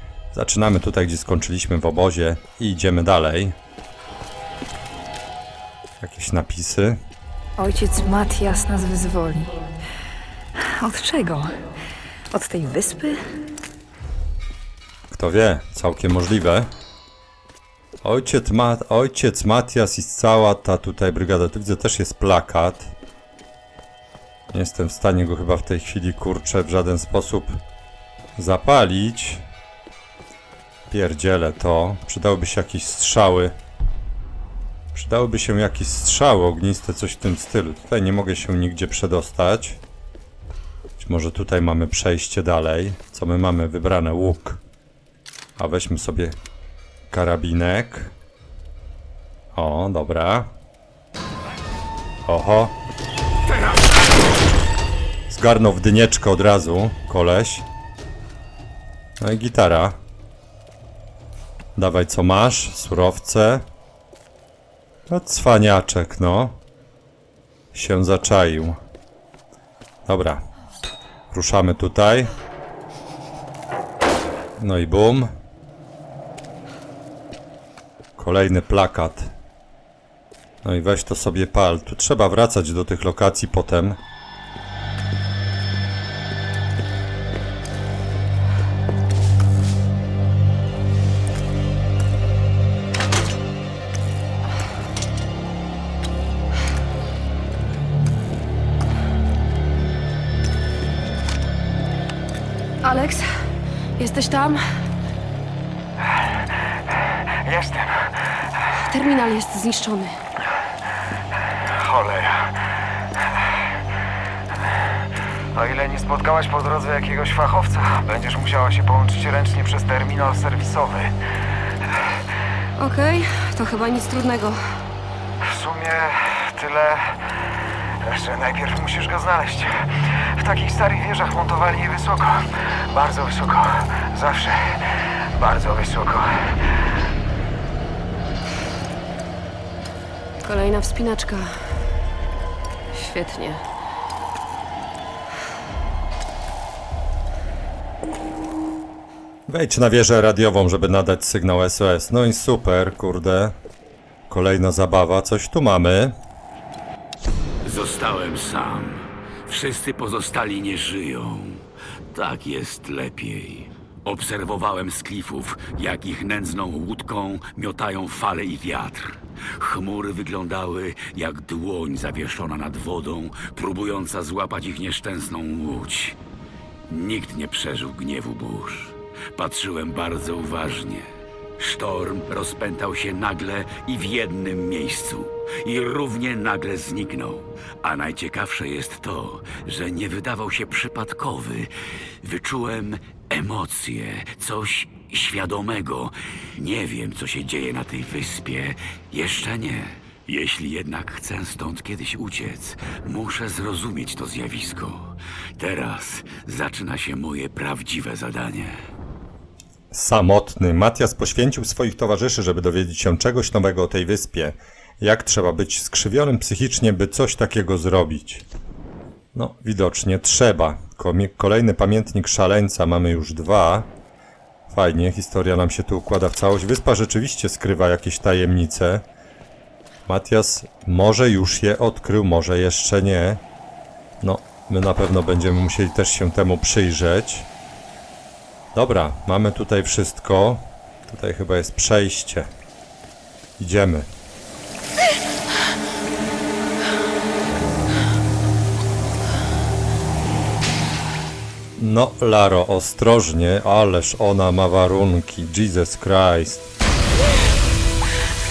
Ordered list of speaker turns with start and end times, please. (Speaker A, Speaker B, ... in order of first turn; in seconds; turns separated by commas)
Speaker A: 0.3-3.5, Speaker A: 6.0-7.0, Speaker B: 7.6-9.6, Speaker B: 10.5-11.5, Speaker B: 12.3-13.2, Speaker A: 15.1-16.7, Speaker A: 18.0-22.9, Speaker A: 24.5-27.6, Speaker A: 28.4-29.4, Speaker A: 30.9-33.5, Speaker A: 34.9-39.8, Speaker A: 41.0-44.6, Speaker A: 45.6-46.4, Speaker A: 47.1-48.1, Speaker A: 49.5-50.5, Speaker A: 52.2-52.7, Speaker A: 55.3-57.6, Speaker A: 59.2-60.0, Speaker A: 61.8-63.6, Speaker A: 65.1-66.6, Speaker A: 67.7-68.8, Speaker A: 70.0-70.4, Speaker A: 71.3-72.3, Speaker A: 74.6-75.3, Speaker A: 78.2-79.3, Speaker A: 80.6-84.0, Speaker C: 102.8-103.3, Speaker C: 104.0-104.6, Speaker D: 107.4-108.2, Speaker C: 108.8-110.2, Speaker D: 111.8-112.6, Speaker D: 115.5-121.1, Speaker C: 122.8-124.8, Speaker D: 125.4-127.2, Speaker D: 128.0-136.5, Speaker C: 140.4-141.7, Speaker C: 142.9-143.6, Speaker A: 149.5-153.6, Speaker A: 154.3-156.1, Speaker E: 157.6-176.2, Speaker E: 176.9-181.1, Speaker E: 181.6-208.8, Speaker A: 209.9-218.4, Speaker A: 219.3-223.9, Speaker A: 224.7-229.0, Speaker A: 230.1-233.4, Speaker A: 234.2-237.5, Speaker A: 238.7-242.5, Speaker A: 243.6-244.1, Speaker A: 251.8-256.7